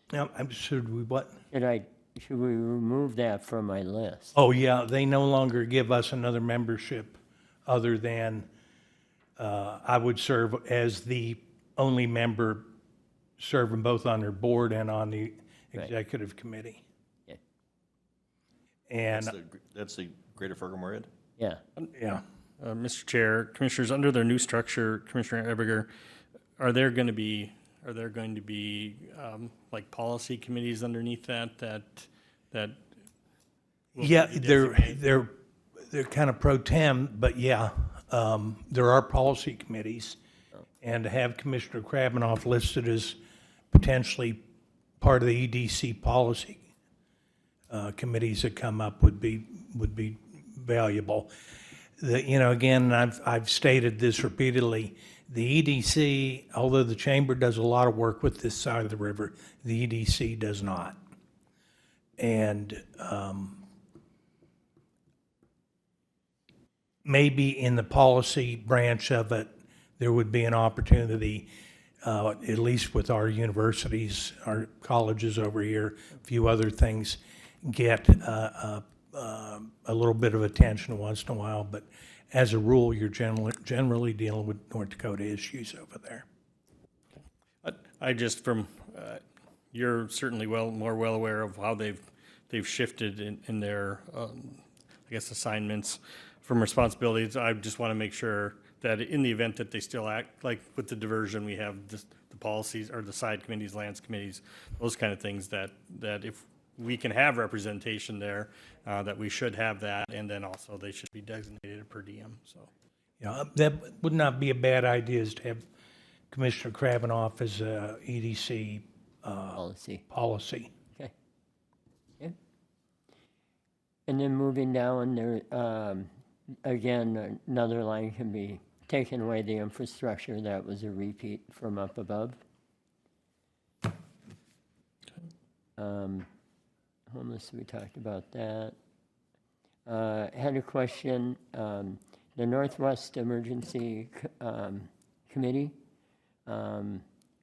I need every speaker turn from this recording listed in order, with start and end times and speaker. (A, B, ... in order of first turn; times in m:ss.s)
0:00.1-0:01.4 A
0:01.5-0:04.4 B
0:04.4-0:08.5 A
0:09.4-0:12.7 A
0:13.4-0:16.8 A
0:18.9-0:19.4 A
0:19.1-0:21.1 C
0:22.0-0:22.2 A
0:22.6-0:25.9 D
0:26.6-0:32.8 D
0:34.0-0:35.0 D
0:34.0-0:40.2 A
0:40.8-0:43.2 A
0:43.7-0:44.4 A
0:45.0-0:46.6 A
0:47.7-0:51.3 A
0:52.0-1:01.0 A
1:02.2-1:03.6 A
1:07.0-1:11.5 A
1:12.0-1:26.2 A
1:27.2-1:29.2 D
1:29.7-1:52.7 D
1:53.2-1:55.6 A
1:56.3-2:00.7 A
1:59.5-2:00.0 B
2:04.1-2:06.1 B
2:06.6-2:12.4 B
2:15.8-2:16.3 B
2:17.1-2:18.8 B
2:19.9-2:25.8 B
2:26.5-2:27.0 B